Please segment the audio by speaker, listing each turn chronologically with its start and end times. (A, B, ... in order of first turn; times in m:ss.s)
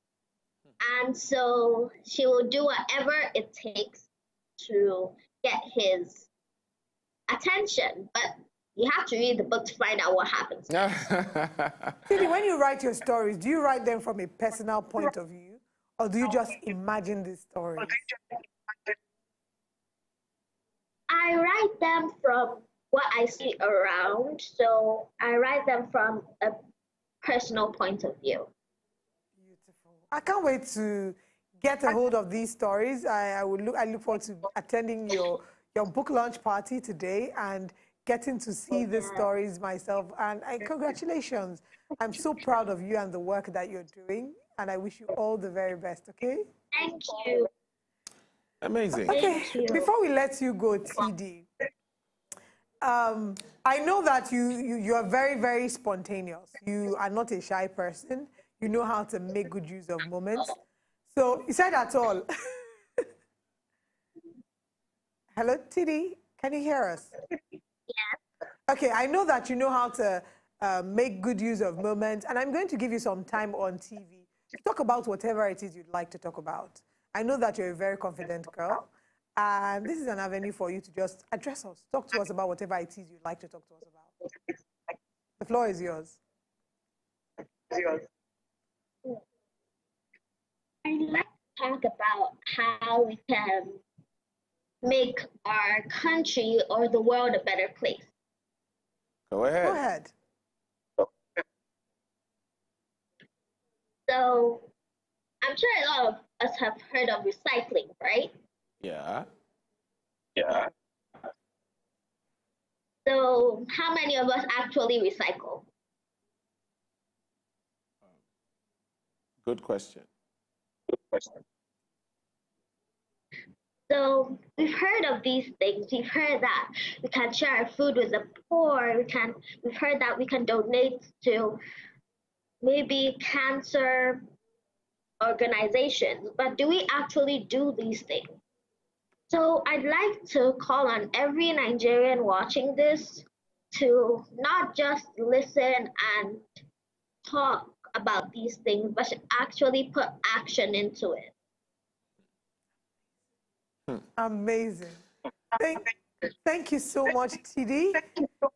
0:00.8-0:06.3 A
0:07.3-0:10.8 A
0:10.7-0:12.0 B
0:12.1-0:18.0 C
0:21.1-0:26.6 A
0:27.2-0:28.5 A
0:29.4-0:46.5 C
0:38.8-0:39.3 A
0:46.7-0:47.5 A
0:48.6-0:49.2 B
0:49.1-0:49.9 A
0:49.1-0:51.5 C
0:52.8-1:03.0 C
1:05.3-1:07.1 C
1:07.9-1:08.2 A
1:08.7-1:24.1 C
1:25.4-1:26.2 C
1:30.8-1:33.8 A
1:34.8-1:38.1 A
1:39.3-1:39.8 B
1:39.6-1:40.1 C
1:44.1-1:44.6 A
1:45.4-1:48.3 A
1:48.8-1:49.2 B
1:53.0-1:55.7 A
1:59.4-2:00.1 B
2:03.9-2:11.6 A
2:12.6-2:14.2 A
2:15.2-2:18.4 A
2:19.3-2:26.5 A
2:27.2-2:31.3 A
2:34.2-2:35.0 C
2:35.6-2:35.9 C
2:36.4-2:38.0 C